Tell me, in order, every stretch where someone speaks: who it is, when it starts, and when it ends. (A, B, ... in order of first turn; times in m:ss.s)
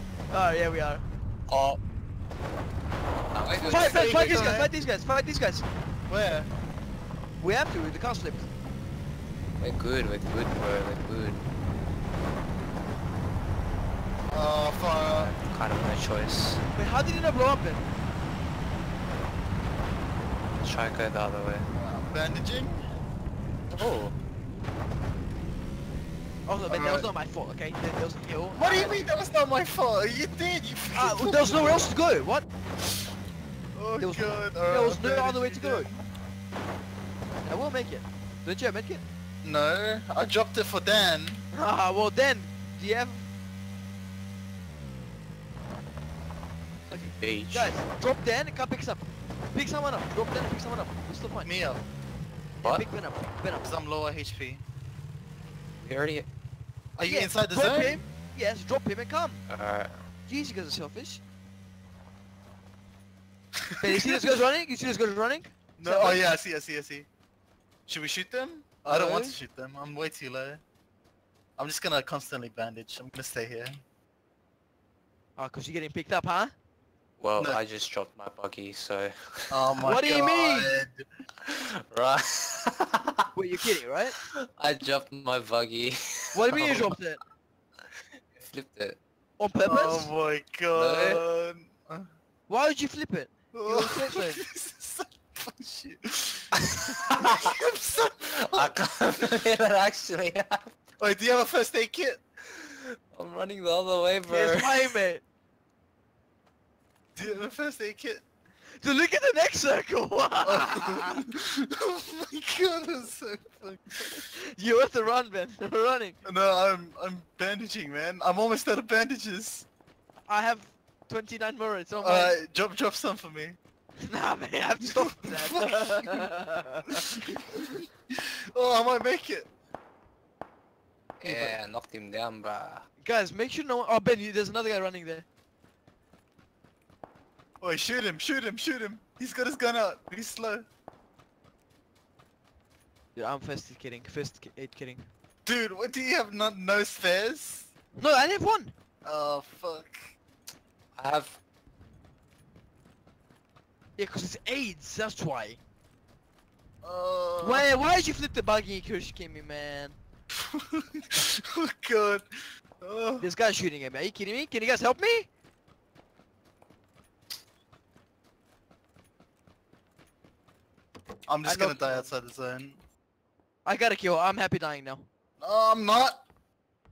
0:00.3-0:01.0 A
0:01.5-0:01.8 B
0:03.3-0:04.6 B
0:03.6-0:05.6 A
0:03.7-0:04.7 C
0:06.1-0:06.5 C
0:07.4-0:08.5 A
0:09.6-0:11.4 B
0:14.3-0:15.3 C
0:15.1-0:16.6 B
0:16.7-0:17.9 A
0:20.6-0:21.7 B
0:21.7-0:22.8 C
0:23.7-0:24.2 B
0:26.4-0:29.1 A
0:26.7-0:27.1 C
0:28.5-0:31.8 C
0:30.9-0:32.5 A
0:33.7-0:36.0 C
0:34.0-0:35.9 A
0:37.4-0:39.0 A
0:39.4-0:41.4 C
0:41.5-0:43.2 A
0:46.9-0:51.5 A
0:47.2-0:47.7 B
0:51.4-0:51.8 C
0:52.6-0:53.7 A
0:53.6-0:54.6 C
0:55.8-0:56.3 B
0:57.0-0:58.0 C
0:57.0-0:59.5 A
0:59.5-1:00.0 B
1:00.3-1:01.2 A
1:03.7-1:04.1 C
1:03.8-1:06.3 A
1:05.8-1:07.1 C
1:07.9-1:10.6 C
1:08.8-1:09.4 A
1:11.6-1:13.8 C
1:15.4-1:16.5 A
1:17.2-1:19.6 B
1:19.5-1:21.0 C
1:19.8-1:20.7 A
1:21.4-1:23.2 B
1:23.3-1:24.2 A
1:24.2-1:26.9 B
1:26.3-1:27.2 A
1:28.3-1:29.0 B
1:29.4-1:30.1 A
1:29.6-1:32.1 C
1:30.7-1:31.2 B
1:32.5-1:34.4 A
1:33.5-1:36.6 C
1:36.7-1:37.4 B
1:37.1-1:38.8 C
1:38.5-1:40.7 B
1:41.0-1:42.2 C
1:42.6-1:44.9 B
1:44.3-1:45.2 A
1:47.2-1:48.2 C
1:48.8-1:51.2 A
1:50.4-1:54.1 C
1:54.1-1:56.2 A
1:56.2-1:59.6 C
2:00.3-2:02.3 A
2:02.0-2:03.6 C
2:04.1-2:07.0 A
2:05.2-2:06.2 C
2:06.9-2:09.5 C
2:11.2-2:12.8 B
2:11.2-2:11.6 A
2:13.0-2:15.2 A
2:17.6-2:20.7 C
2:23.2-2:25.1 A
2:25.4-2:27.7 C
2:28.0-2:28.7 A
2:29.0-2:30.1 C
2:31.0-2:31.4 B
2:34.0-2:35.6 A
2:36.8-2:37.7 C
2:37.4-2:40.0 A
2:40.5-2:42.2 C
2:42.8-2:43.3 C
2:43.2-2:45.3 A
2:51.3-2:52.8 C
2:51.4-2:52.1 A
2:53.6-2:55.1 A
2:55.4-2:56.2 C